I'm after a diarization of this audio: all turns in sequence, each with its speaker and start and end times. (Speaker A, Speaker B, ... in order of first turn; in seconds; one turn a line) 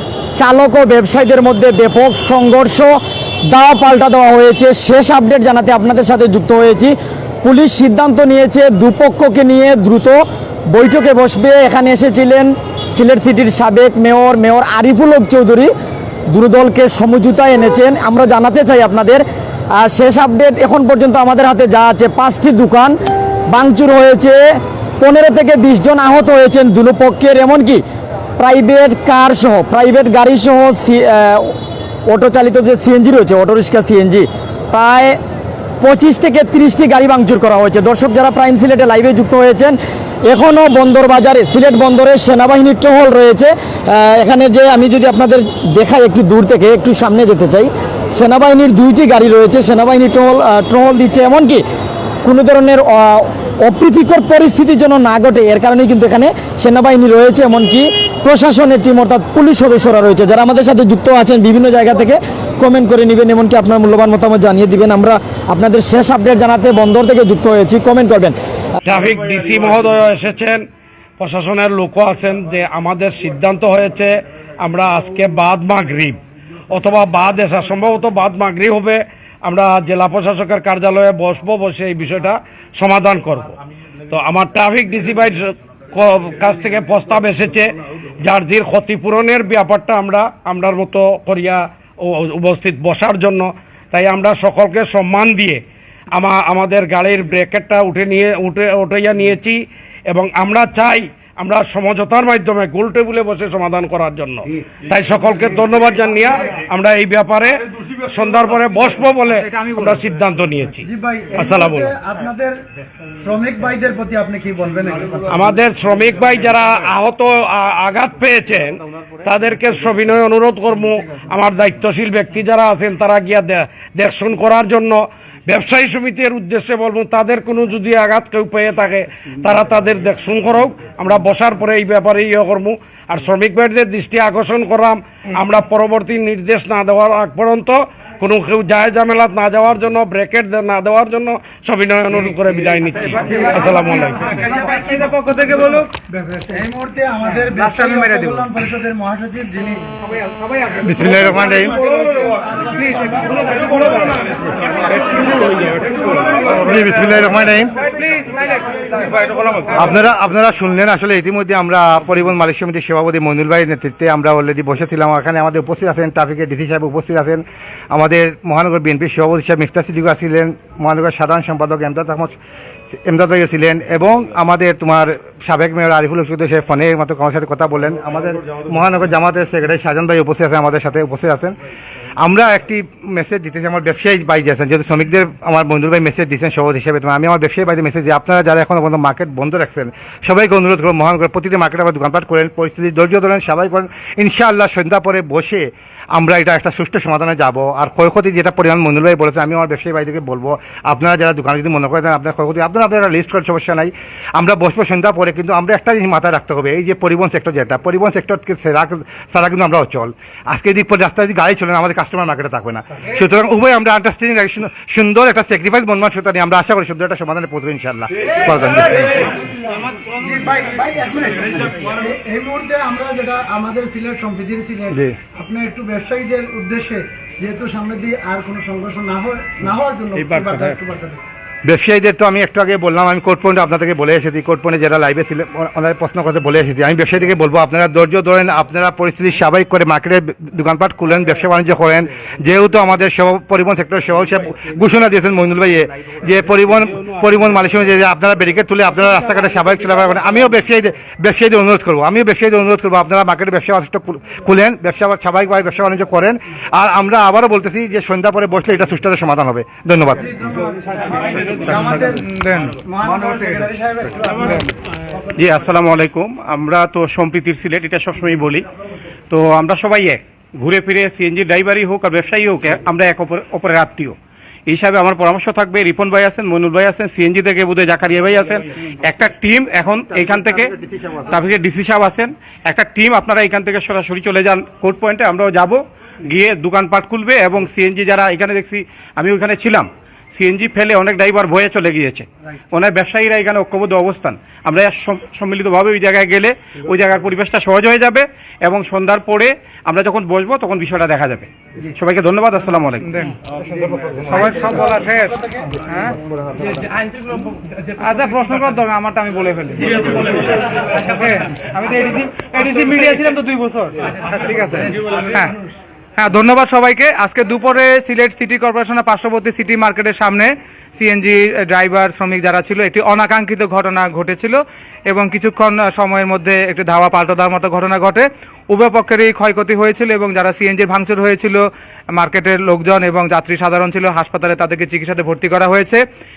Speaker A: 0.4-15.7
Speaker A: 16.3-23.0
Speaker A: 23.5-27.8
Speaker A: 28.4-31.6
Speaker A: 32.1-35.2
Speaker A: 35.8-51.6
Speaker A: 52.2-68.3
Speaker B: 68.8-70.7
Speaker B: 71.2-76.2
Speaker B: 76.7-83.5
Speaker B: 84.1-112.0
Speaker C: 109.4-110.0
Speaker D: 110.9-112.6
Speaker D: 113.2-115.2
Speaker B: 115.2-144.3
Speaker C: 143.2-145.9
Speaker D: 146.1-149.8
Speaker C: 147.3-148.7
Speaker C: 150.1-151.2
Speaker E: 150.8-151.8
Speaker C: 151.7-154.3
Speaker D: 152.4-153.5
Speaker C: 154.9-155.2
Speaker C: 155.8-156.3
Speaker E: 156.4-157.7
Speaker C: 157.8-158.8
Speaker E: 159.7-172.4
Speaker E: 172.9-181.5
Speaker E: 182.2-219.3
Speaker D: 220.2-231.2
Speaker B: 230.2-230.8
Speaker E: 231.6-260.3
Speaker D: 260.5-262.2
Speaker C: 261.7-262.8
Speaker D: 262.8-264.5
Speaker F: 265.4-268.7
Speaker F: 269.3-274.1
Speaker F: 274.7-280.7
Speaker F: 281.3-303.0
Speaker C: 303.0-303.3
Speaker C: 304.3-306.2
Speaker C: 308.0-315.6
Speaker C: 316.2-331.6
Speaker C: 332.1-336.0